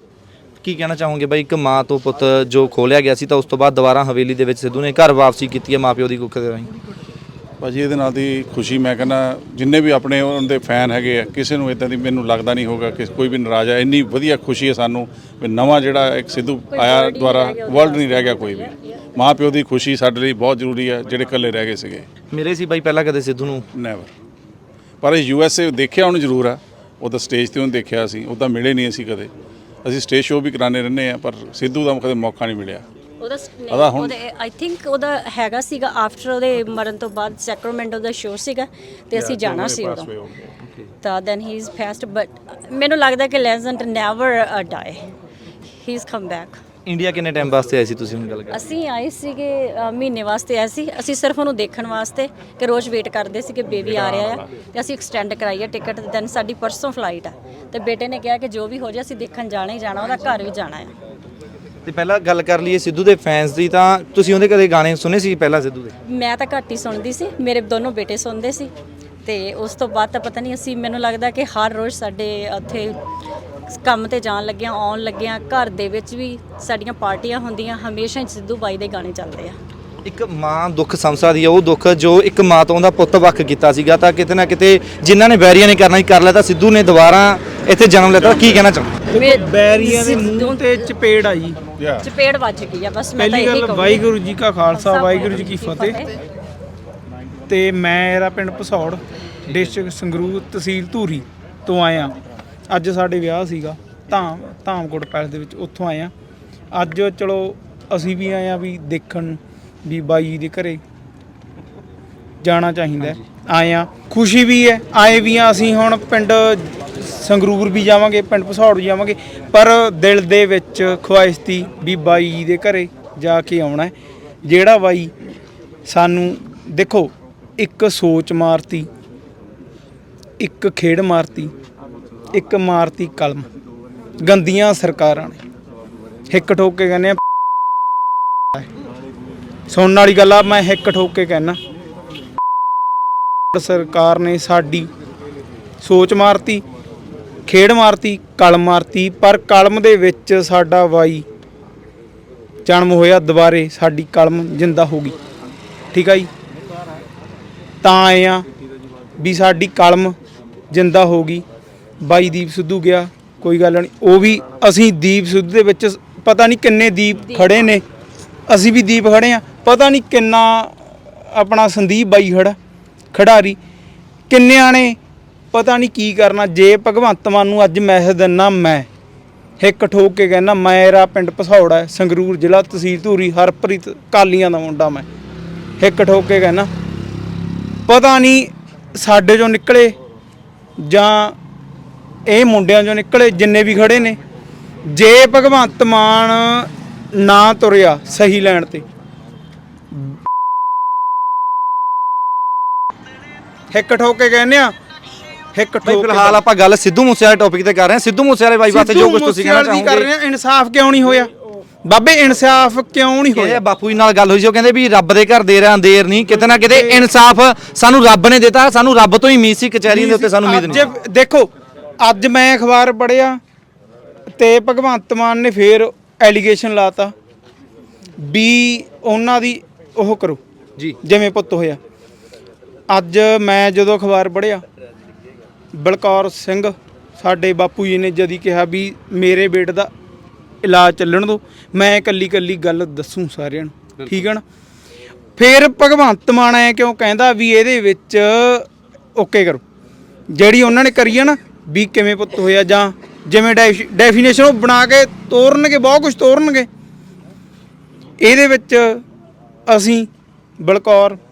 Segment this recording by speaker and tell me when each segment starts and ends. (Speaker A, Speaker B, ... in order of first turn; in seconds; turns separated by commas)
Speaker A: 0.6-6.7, Speaker B: 7.6-22.1, Speaker C: 16.7-19.0, Speaker A: 22.3-23.6, Speaker B: 23.7-24.1, Speaker B: 25.0-29.3, Speaker B: 29.8-32.8, Speaker C: 33.2-40.1, Speaker B: 33.7-34.1, Speaker B: 39.1-40.5, Speaker C: 41.0-45.0, Speaker C: 45.7-46.6, Speaker A: 46.9-48.6, Speaker C: 48.5-60.9, Speaker B: 53.8-54.5, Speaker A: 61.8-65.9, Speaker C: 66.1-68.7, Speaker C: 69.2-72.9, Speaker C: 73.7-79.6, Speaker A: 80.0-88.9, Speaker B: 88.2-88.6, Speaker D: 89.1-91.6, Speaker C: 89.1-90.8, Speaker B: 91.8-92.0, Speaker C: 92.0-94.1, Speaker D: 93.2-96.0, Speaker C: 94.7-96.1, Speaker D: 97.5-102.1, Speaker D: 102.7-106.1, Speaker D: 106.7-110.8, Speaker D: 112.4-123.9, Speaker D: 124.4-125.1, Speaker D: 125.8-128.9, Speaker D: 130.4-131.5, Speaker D: 132.3-133.4, Speaker D: 134.2-135.4, Speaker D: 136.3-137.2, Speaker D: 139.7-141.6, Speaker D: 143.5-144.9, Speaker D: 145.8-146.6, Speaker D: 147.5-151.2, Speaker D: 152.6-155.2, Speaker D: 155.9-156.3, Speaker D: 157.8-158.4, Speaker D: 159.2-160.1, Speaker D: 160.7-161.4, Speaker D: 162.0-167.8, Speaker C: 167.2-167.7, Speaker D: 168.5-172.5, Speaker D: 173.1-173.6, Speaker D: 174.3-175.0, Speaker D: 175.5-178.9, Speaker D: 179.6-185.1, Speaker D: 185.8-186.7, Speaker D: 187.9-189.9, Speaker D: 190.8-191.3, Speaker D: 192.2-194.2, Speaker D: 194.9-198.8, Speaker D: 199.9-200.2, Speaker D: 203.7-204.7, Speaker D: 205.5-206.4, Speaker A: 205.8-210.1, Speaker D: 208.7-211.3, Speaker D: 211.8-213.6, Speaker A: 213.3-220.9, Speaker D: 216.7-217.0, Speaker D: 219.9-223.4, Speaker D: 224.4-227.1, Speaker D: 228.2-230.4, Speaker D: 231.0-231.8, Speaker D: 232.9-234.6, Speaker D: 235.7-239.9, Speaker D: 240.6-244.4, Speaker D: 245.4-249.6, Speaker D: 250.3-256.7, Speaker D: 258.2-259.0, Speaker D: 259.7-260.1, Speaker D: 260.6-261.2